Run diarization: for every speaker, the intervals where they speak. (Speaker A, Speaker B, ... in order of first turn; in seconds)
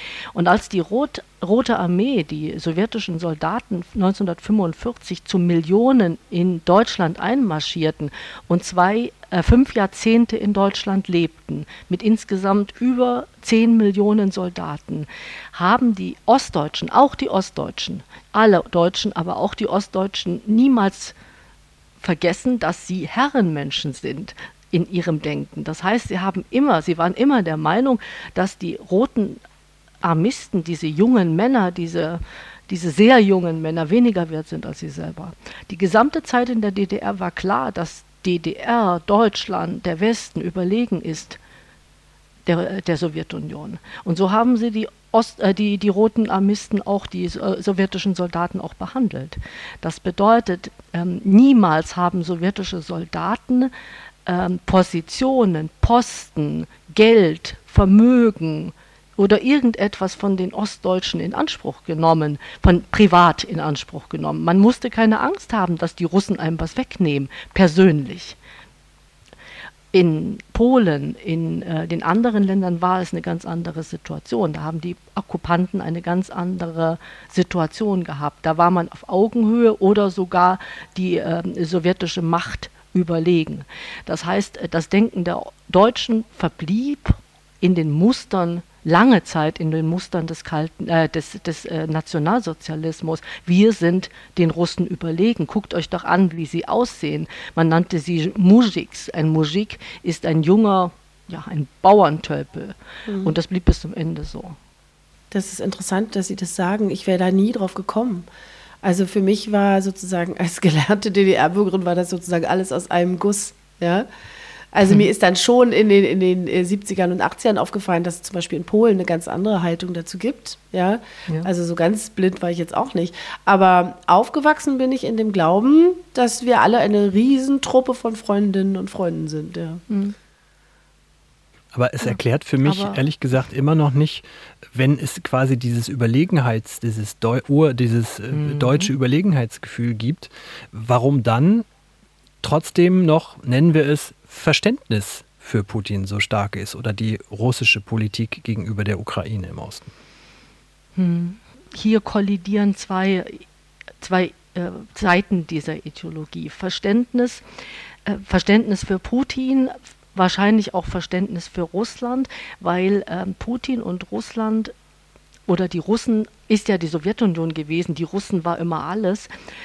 Speaker A: 0.3-21.1, 22.0-29.4, 30.0-41.4, 42.5-53.7, 54.2-68.4, 69.9-104.5, 129.9-130.2, 132.6-133.0, 138.3-138.9, 150.9-153.4, 154.0-157.4, 158.1-164.7, 165.5-169.3
Speaker B: 103.1-103.3, 105.3-108.2, 108.8-114.1, 114.7-129.8
Speaker C: 131.7-141.7, 142.4-149.9